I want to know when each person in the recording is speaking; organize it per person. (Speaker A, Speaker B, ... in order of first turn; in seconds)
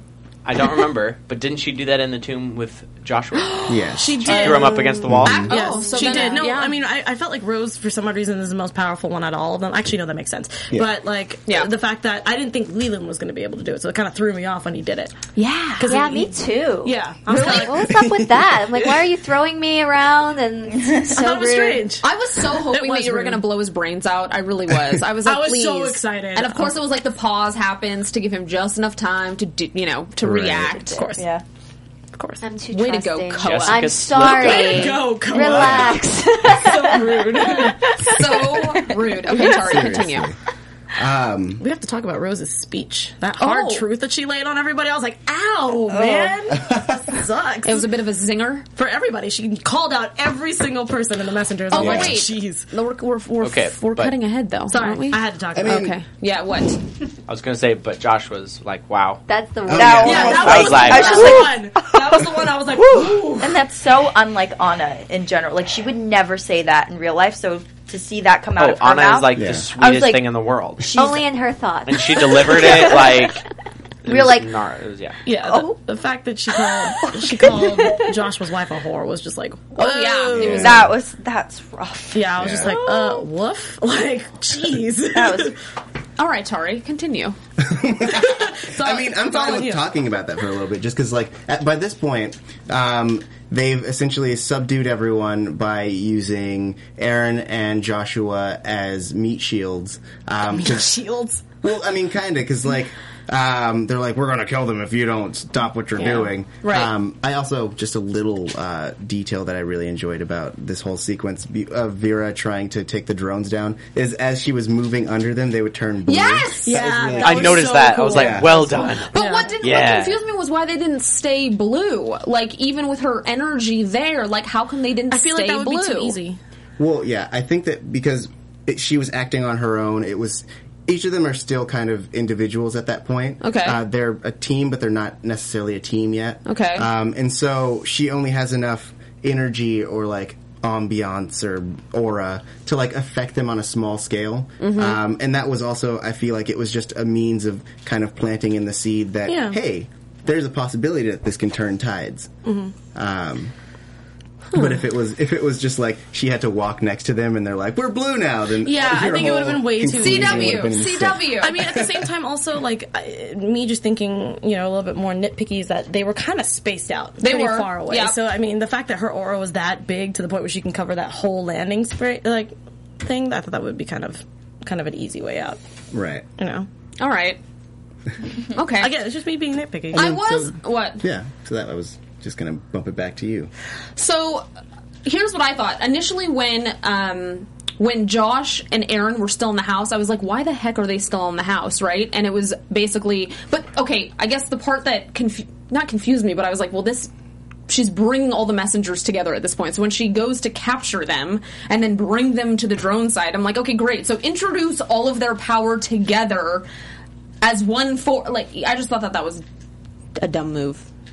Speaker A: 0.4-5.5, 33.4-34.9, 53.4-54.1, 57.3-59.2, 59.8-61.3, 68.6-71.0, 71.8-73.4, 74.0-75.2, 117.2-120.2
Speaker B: 3.5-15.2, 15.8-18.0, 18.8-19.0, 21.1-23.5, 25.2-26.8, 30.9-31.3, 32.1-32.4, 34.1-38.0, 39.5-39.8, 41.6-47.9, 48.8-52.7, 54.7-55.9, 60.0-63.6, 75.2-80.8, 82.1-85.5, 88.0-89.8, 100.5-101.5, 106.0-106.3, 116.6-119.6, 125.1-126.4, 149.3-149.6, 152.4-152.7, 158.6-175.6, 176.4-176.7, 178.8-180.2
Speaker C: 3.7-4.5, 5.0-5.5, 17.9-18.4, 30.2-30.8, 35.5-35.9, 39.4-40.4, 40.9-41.6, 46.6-47.1, 51.7-52.2, 55.5-55.9, 59.6-60.7, 69.3-69.7, 80.3-80.9, 82.4-82.7, 87.6-101.0, 101.6-118.8, 126.8-152.3, 152.9-153.5, 154.5-162.1, 175.9-176.2, 179.9-183.5
Speaker D: 4.0-6.8, 15.3-15.9, 17.3-17.7, 22.0-31.1, 32.7-33.9, 38.0-40.3, 43.4-43.8, 47.6-48.6, 51.7-56.8, 79.8-80.8, 86.2-87.3, 106.6-106.9, 116.1-116.8, 119.1-126.2, 133.4-133.8, 136.4-136.9, 144.6-145.0, 159.9-161.6, 167.2-168.2, 177.0-177.4, 178.5-178.9, 179.9-181.0, 183.9-184.4, 185.0-197.1, 197.7-206.7, 207.4-209.4, 210.2-210.8
Speaker E: 15.8-21.9, 32.4-37.5, 59.3-61.5, 70.8-73.3, 74.1-74.5
Speaker F: 20.7-21.1, 30.9-31.4, 38.1-38.8, 45.9-46.4, 59.7-70.3, 70.9-71.2, 72.2-73.1, 77.0-78.1, 80.5-83.2, 85.1-85.5